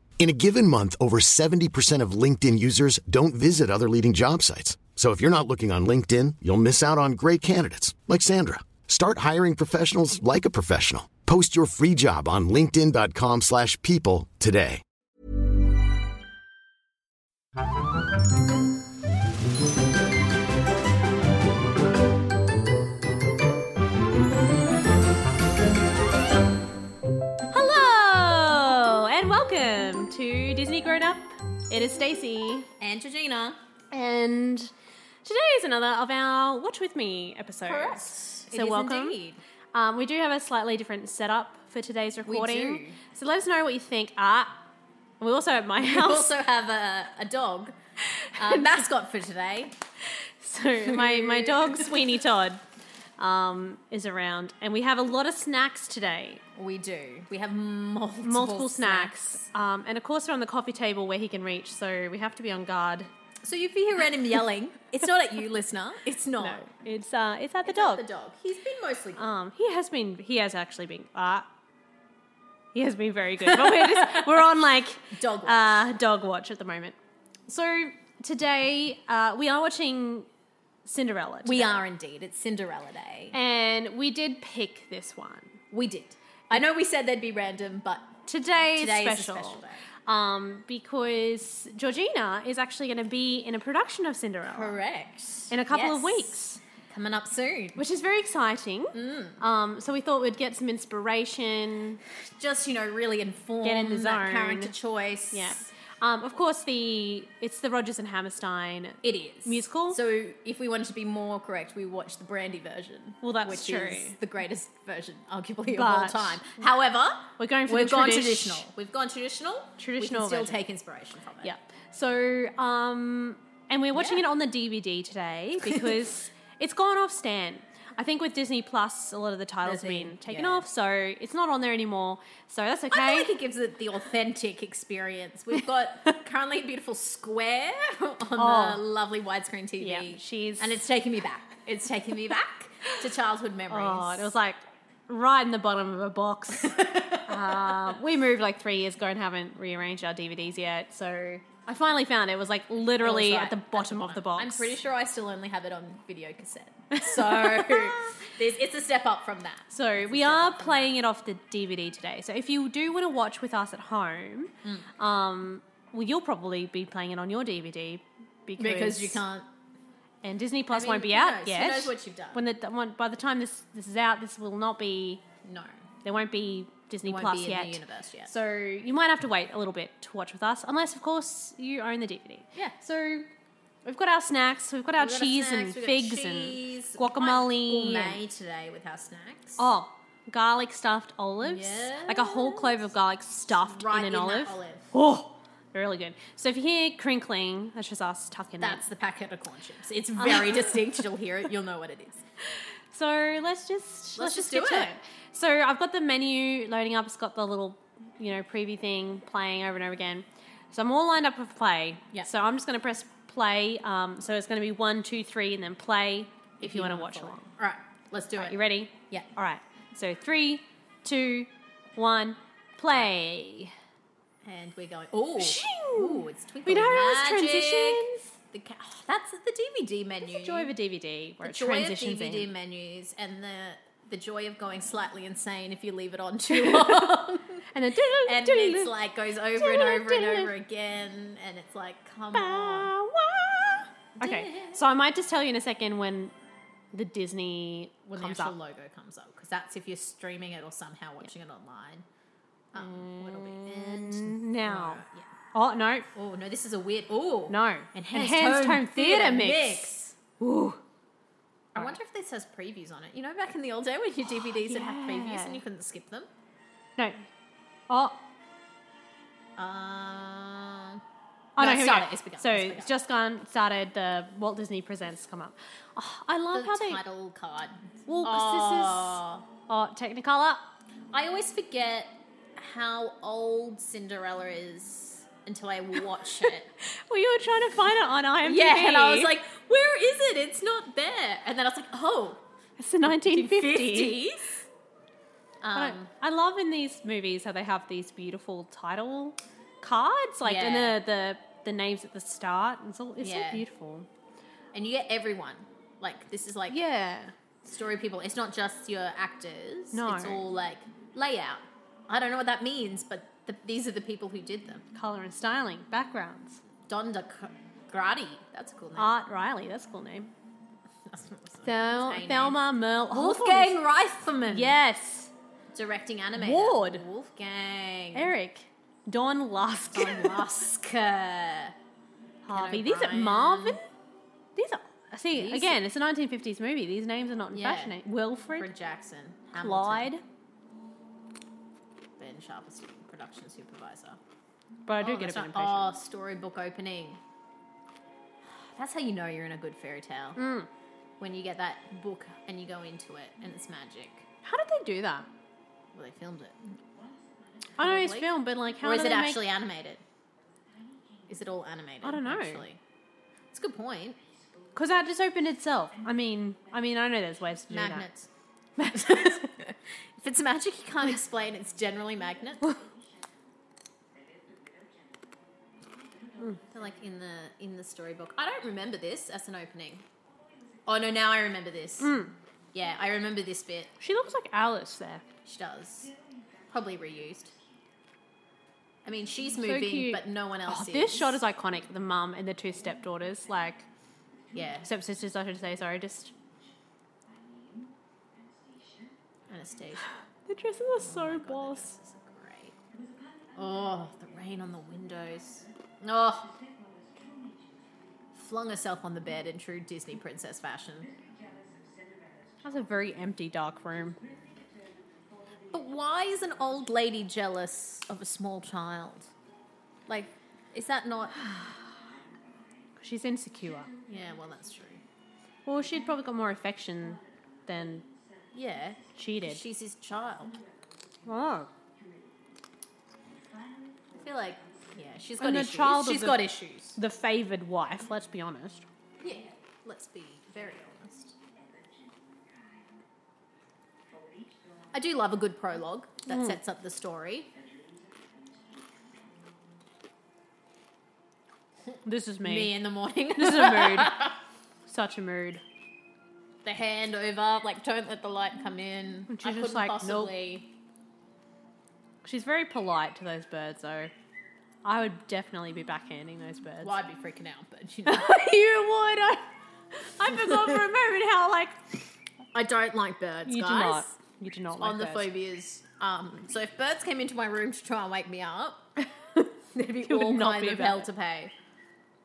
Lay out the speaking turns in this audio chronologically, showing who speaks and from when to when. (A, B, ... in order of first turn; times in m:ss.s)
0:00.2-0:14.8 A
0:27.5-0:32.7 B
0:32.8-0:33.6 C
0:33.9-0:34.7 B
0:35.2-0:39.2 B
0:37.7-0:39.4 C
0:39.7-0:44.6 B
0:42.3-0:43.0 C
0:45.2-0:46.4 B
0:45.8-0:47.7 C
0:48.4-0:49.8 C
0:48.4-0:48.8 B
0:50.4-0:52.6 B
0:50.9-0:52.0 C
0:53.2-0:56.4 B
0:56.6-0:59.4 C
0:58.2-1:03.1 B
1:03.4-1:06.7 C
1:06.4-1:08.0 B
1:07.7-1:09.2 C
1:09.2-1:11.5 B
1:12.7-1:17.0 B
1:13.6-1:14.3 C
1:15.1-1:15.9 C
1:17.5-1:20.3 B
1:20.8-1:21.8 B
1:21.4-1:23.4 C
1:23.3-1:25.6 B
1:25.7-1:28.1 C
1:28.3-1:34.8 B
1:28.8-1:29.8 C
1:34.5-1:37.8 C
1:35.5-1:36.6 B
1:37.8-1:42.0 B
1:38.9-1:39.4 C
1:42.1-1:45.6 C
1:43.6-1:44.7 B
1:45.3-1:50.0 B
1:49.0-2:01.5 C
1:53.2-1:54.2 B
1:55.7-1:56.6 B
1:57.4-1:58.6 B
1:59.8-2:00.6 B
2:01.4-2:13.4 B
2:03.9-2:04.2 C
2:05.6-2:06.1 C
2:09.6-2:10.7 C
2:12.9-2:24.3 C
2:18.4-2:18.8 B
2:19.8-2:20.8 B
2:23.7-2:34.8 B
2:26.7-2:27.7 C
2:33.0-2:40.9 C
2:36.9-2:38.1 B
2:39.7-2:49.2 B
2:44.6-2:44.9 C
2:48.6-2:49.5 C
2:50.2-2:55.2 B
2:50.7-2:52.4 C
2:55.4-2:55.8 C
2:56.0-3:03.3 B
2:57.0-2:58.3 C
3:02.6-3:02.8 C
3:03.8-3:08.2 B
3:05.0-3:09.6 C
3:09.6-3:18.8 B
3:11.4-3:12.8 C
3:13.6-3:14.9 C
3:18.6-3:22.2 C
3:20.2-3:20.8 B
3:22.9-3:37.5 B
3:24.2-3:25.0 C
3:36.6-3:39.3 C
3:38.4-3:43.7 B
3:44.4-3:50.7 C
3:45.4-3:48.3 B
3:50.2-3:52.5 B
3:51.4-3:57.7 C
3:56.5-3:58.9 B
3:58.2-4:02.9 C
3:59.6-4:00.5 B
4:02.3-4:06.3 B
4:04.2-4:04.8 C
4:06.9-4:08.6 B
4:08.1-4:12.0 C
4:12.7-4:15.3 C
4:12.8-4:15.0 B
4:15.5-4:16.1 B
4:16.1-4:20.2 C
4:17.5-4:20.8 B
4:21.7-4:26.3 C
4:24.5-4:25.6 B
4:27.0-4:27.2 B
4:27.9-4:28.2 B
4:29.6-4:31.0 C
4:31.6-4:37.0 B
4:31.6-4:32.9 C
4:36.5-4:39.5 C
4:38.1-4:40.7 B
4:41.1-4:46.7 C
4:47.1-4:49.3 B
4:48.4-4:52.4 C
4:52.8-4:54.4 B
4:53.1-4:54.6 C
4:55.6-4:56.1 C
4:55.8-5:04.1 B
5:00.4-5:01.0 C
5:03.2-5:03.6 C
5:04.7-5:06.8 C
5:06.7-5:07.3 B
5:07.6-5:14.8 C
5:09.9-5:10.4 B
5:14.9-5:16.6 B
5:16.8-5:19.1 C
5:19.0-5:20.3 B
5:21.1-5:22.6 C
5:21.6-5:23.8 B
5:23.1-5:24.8 C
5:24.5-5:25.3 B
5:25.7-5:28.3 C
5:26.4-5:27.0 B
5:28.1-5:30.5 B
5:29.9-5:31.8 C
5:32.4-5:33.8 B
5:32.5-5:33.8 C
5:34.6-5:38.7 B
5:35.3-5:35.8 C
5:37.5-5:38.0 C
5:38.5-5:40.1 C
5:39.6-5:40.2 B
5:42.2-5:44.2 C
5:44.9-5:46.0 B
5:45.0-5:47.2 C
5:48.4-5:50.4 C
5:50.4-5:50.7 B
5:51.2-5:54.3 C
5:54.4-5:55.3 B
5:55.9-5:56.8 C
5:57.8-5:59.5 B
5:57.8-6:00.0 C
6:01.3-6:02.8 C
6:02.0-6:02.6 B
6:03.5-6:04.2 C
6:04.8-6:08.1 B
6:07.7-6:08.3 C
6:08.8-6:09.4 B
6:08.8-6:12.8 C
6:16.6-6:20.0 C
6:20.9-6:22.2 C
6:22.0-6:22.3 B
6:22.7-6:23.9 C
6:24.0-6:25.2 B
6:25.4-6:26.1 C
6:26.7-6:27.6 C
6:29.0-6:31.4 C
6:29.6-6:33.9 B
6:34.5-6:34.9 C
6:34.8-6:36.3 B
6:39.5-6:40.1 C
6:40.5-6:42.0 B
6:41.0-6:42.8 C
6:43.6-6:46.5 C
6:48.3-6:51.1 C
6:52.6-6:54.2 B
6:55.7-6:59.3 C
7:00.1-7:01.6 C
7:03.0-7:03.9 B
7:04.1-7:05.0 C
7:05.7-7:08.1 B
7:08.5-7:10.6 C
7:09.2-7:09.6 B
7:11.2-7:11.7 B
7:14.2-7:17.0 C
7:15.4-7:18.8 B
7:19.2-7:21.4 C
7:24.9-7:27.5 C
7:32.0-7:32.8 B
7:32.4-7:34.4 C
7:33.4-7:34.3 B
7:34.9-7:35.6 B
7:36.6-7:40.7 C
7:39.3-7:40.3 B
7:42.2-7:44.1 B
7:44.8-7:47.0 B
7:46.8-7:48.9 C
7:48.1-7:49.4 B
7:50.1-7:52.0 B
7:52.5-7:54.1 C
7:53.5-7:55.3 B
7:54.8-7:58.9 C
7:59.7-8:01.5 C
8:00.1-8:01.1 B